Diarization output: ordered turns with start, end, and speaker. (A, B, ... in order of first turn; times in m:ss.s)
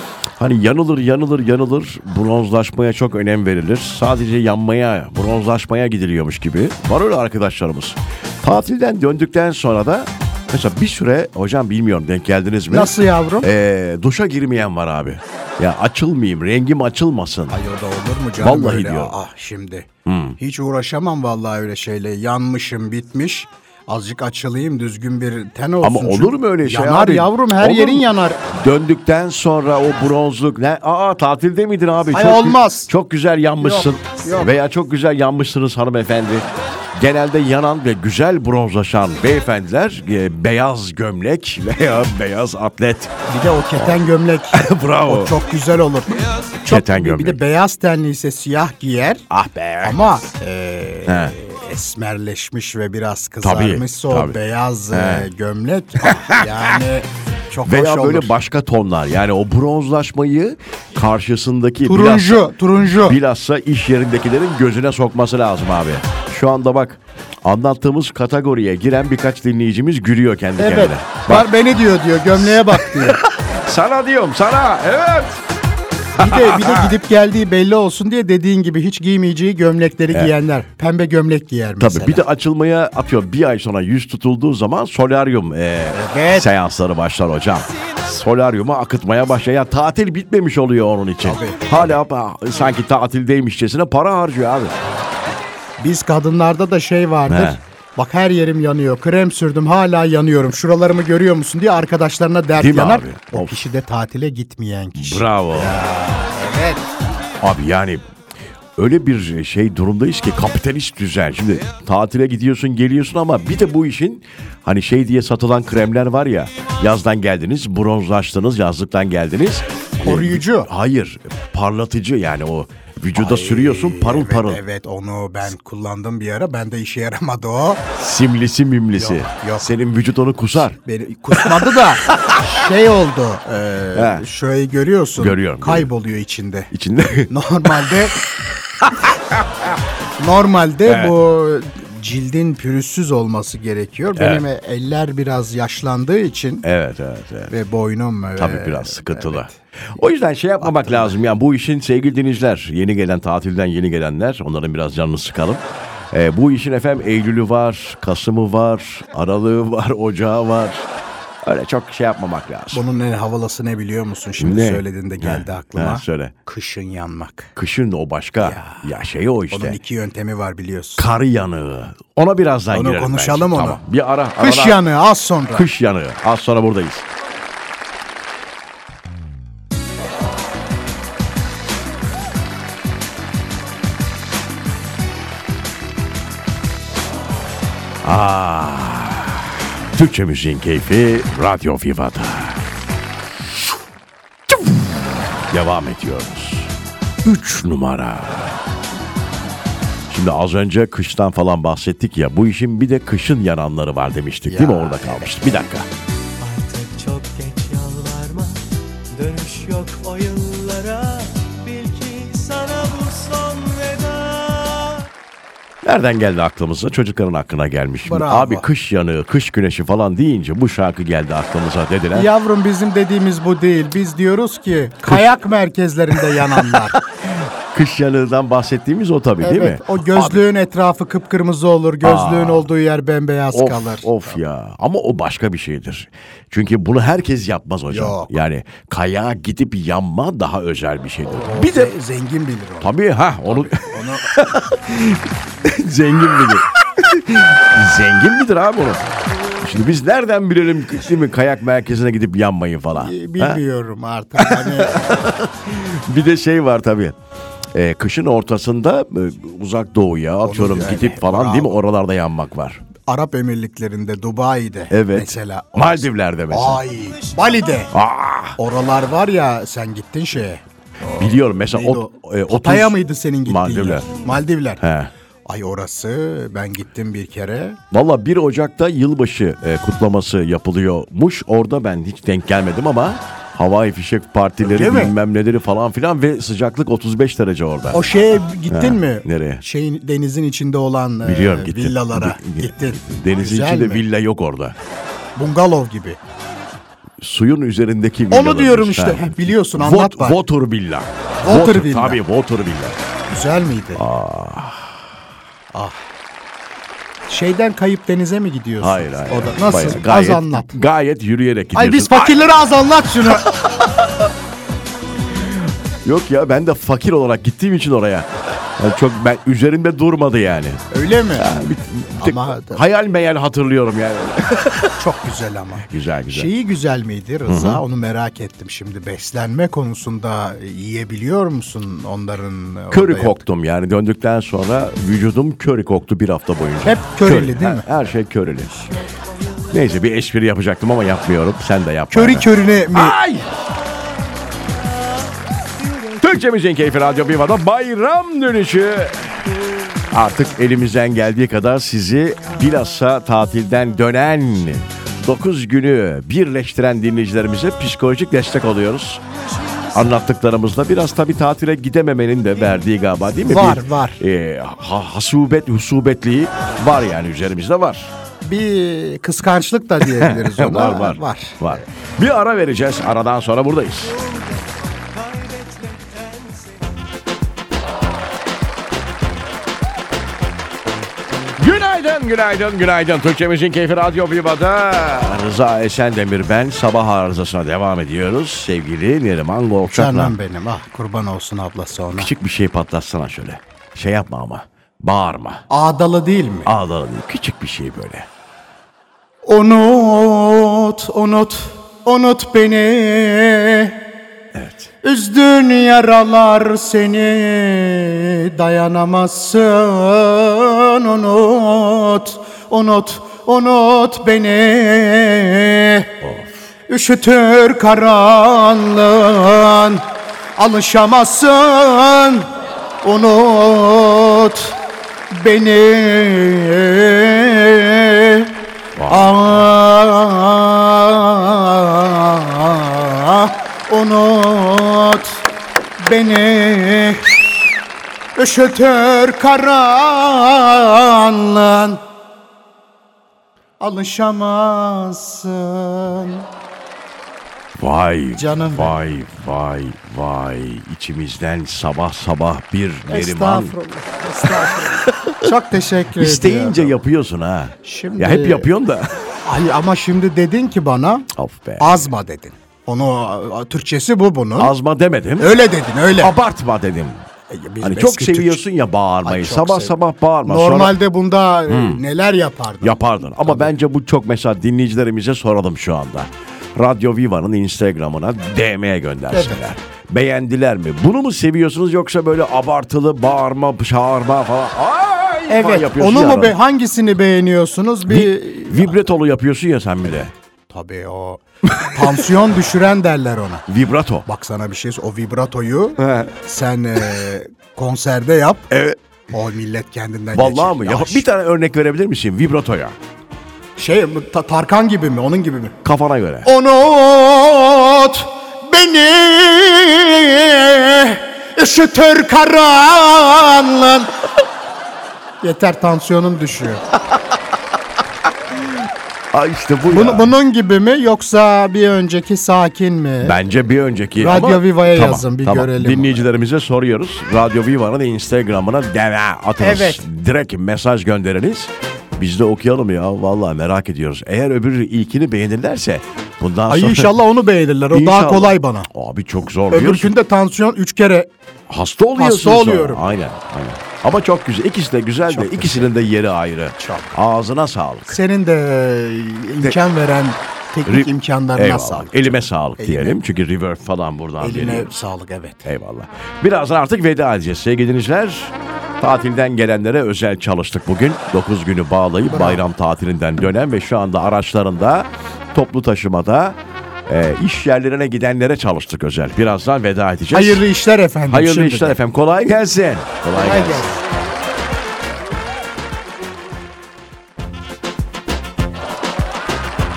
0:00.4-0:17.6 A
0:12.7-0:13.5 B
0:17.5-0:28.4 B
0:18.4-0:19.1 A
0:20.0-0:20.4 A
0:25.8-0:43.1 A
0:32.1-0:32.9 B
0:33.6-0:34.5 B
0:43.3-0:49.2 B
0:43.7-0:44.0 A
0:44.5-0:45.4 A
0:46.6-0:47.4 A
0:49.3-0:50.0 A
0:49.8-0:58.3 B
0:51.1-0:51.4 A
0:53.4-0:54.4 A
0:54.9-0:55.3 A
0:56.0-0:56.8 A
0:57.6-1:11.5 A
1:01.8-1:03.2 B
1:10.6-1:13.2 B
1:12.3-1:15.4 A
1:16.2-1:16.9 A
1:16.2-1:22.2 B
1:21.8-1:34.7 A
1:25.9-1:26.5 B
1:31.2-1:32.0 B
1:35.8-1:46.9 B
1:37.3-1:37.6 A
1:42.6-1:43.6 A
1:45.0-1:45.8 A
1:47.4-1:48.0 A
1:48.8-2:04.6 A
2:00.0-2:00.7 B
2:03.2-2:07.8 B
2:07.9-2:10.8 A
2:08.9-2:09.7 B
2:10.7-2:16.7 B
2:11.3-2:12.5 A
2:13.9-2:14.2 A
2:15.2-2:15.9 A
2:16.7-2:18.0 A
2:17.3-2:18.2 B
2:18.8-2:19.8 A
2:20.2-2:26.6 B
2:20.9-2:21.2 A
2:24.2-2:24.5 A
2:26.6-2:27.5 A
2:27.5-2:29.6 B
2:28.4-2:40.9 A
2:30.6-2:31.1 B
2:41.4-2:42.8 A
2:42.7-2:47.5 B
2:44.4-2:46.3 A
2:47.6-2:49.8 A
2:48.4-2:48.9 B
2:49.5-2:51.0 B
2:51.0-2:54.8 A
2:52.7-2:53.8 B
2:54.4-2:55.6 B
2:55.5-2:57.0 A
3:08.0-3:12.6 A
3:14.5-3:16.7 A
3:17.2-3:18.6 A
3:20.1-3:25.9 A
3:24.5-3:25.3 B
3:26.4-3:28.6 C
3:29.1-3:35.1 C
3:35.8-3:42.3 A
3:38.0-3:38.7 B
3:42.1-3:47.0 B
3:46.1-3:50.4 A
3:49.4-3:54.4 B
3:52.0-3:52.7 A
3:53.5-4:01.9 A
3:57.9-3:58.3 B
4:01.3-4:02.9 B
4:02.8-4:09.0 A
4:03.5-4:04.3 B
4:09.6-4:13.6 A
4:13.0-4:15.2 B
4:14.4-4:17.2 A
4:17.7-4:22.8 A
4:20.4-4:21.8 B
4:23.0-4:27.9 B
4:24.9-4:26.8 A
4:27.9-4:28.6 A
4:28.6-4:30.6 B
4:31.2-4:34.1 A
4:31.7-4:34.8 B
4:34.8-4:35.1 A
4:35.5-4:37.8 B
4:37.9-4:48.0 A
4:44.6-4:45.1 B
4:47.9-4:54.0 B
4:48.7-4:49.6 A
4:51.2-4:54.8 A
4:55.4-4:56.2 B
4:57.2-5:03.0 A
4:58.3-5:00.4 B
5:01.4-5:02.2 B
5:03.3-5:04.0 B
5:04.0-5:05.0 A
5:05.7-5:06.0 B
5:07.3-5:10.8 B
5:08.8-5:12.5 A
5:11.8-5:13.5 B
5:13.2-5:14.3 A
5:15.3-5:20.8 A
5:20.9-5:21.5 B
5:21.3-5:25.0 A
5:22.2-5:22.8 B
5:25.0-5:33.4 B
5:25.9-5:26.5 A
5:27.5-5:27.8 A
5:32.9-5:38.7 A
5:36.8-5:37.9 B
5:39.7-5:43.5 A
5:42.1-5:43.2 B
5:46.2-5:49.3 A
5:50.1-5:59.2 A
5:59.9-6:08.1 A
6:03.4-6:04.2 B
6:08.4-6:11.8 B
6:10.0-6:14.2 A
6:14.1-6:16.8 C
6:21.6-6:30.3 A
6:29.9-6:32.3 B
6:32.1-6:35.6 A
6:35.7-6:36.7 B
6:36.7-6:38.3 A
6:39.4-6:44.0 B
6:44.5-6:44.9 A
6:45.0-6:56.1 B
6:56.2-6:56.5 A
6:56.9-7:00.0 B
7:00.6-7:02.5 B
7:03.0-7:04.8 B
7:05.3-7:08.5 B
7:09.0-7:09.5 A
7:09.1-7:15.4 B
7:16.0-7:17.4 B
7:18.4-7:22.0 B
7:23.8-7:26.5 B
7:27.8-7:33.8 A
7:28.4-7:29.0 B
7:33.1-7:37.0 B
7:34.4-7:35.5 A
7:36.2-7:39.2 A
7:37.8-7:38.7 B
7:39.4-7:44.7 B
7:41.3-7:42.1 A
7:44.6-7:45.6 A
7:45.4-7:46.3 B
7:46.2-7:47.2 A
7:47.5-7:48.6 B
7:47.8-7:51.0 A
7:49.2-7:53.7 B
7:51.7-7:52.0 A
7:52.8-8:06.6 A
7:59.3-7:59.6 B
8:05.5-8:09.0 B
8:08.1-8:10.3 A
8:10.7-8:13.7 B
8:11.6-8:12.2 A
8:13.7-8:14.2 A
8:14.2-8:18.7 B
8:16.0-8:16.3 A
8:18.7-8:19.0 A
8:19.3-8:21.2 B
8:20.3-8:23.0 A
8:23.8-8:25.8 B
8:25.8-8:26.5 A
8:26.4-8:34.2 B
8:35.4-8:36.8 B
8:39.3-8:40.3 A
8:39.9-8:43.4 B
8:43.2-8:57.1 A
8:44.2-8:46.2 B
8:49.6-8:50.0 B
8:56.7-8:58.9 B
8:57.9-9:00.1 A
8:59.7-9:01.3 B
9:01.7-9:08.2 A
9:02.2-9:03.0 B
9:05.3-9:05.9 B
9:06.8-9:07.2 B
9:08.1-9:13.2 B
9:10.9-9:14.9 A
9:14.4-9:15.7 B
9:15.6-9:30.6 A
9:22.3-9:22.6 B
9:30.3-9:32.0 B
9:31.3-9:34.0 A
9:33.3-9:34.0 B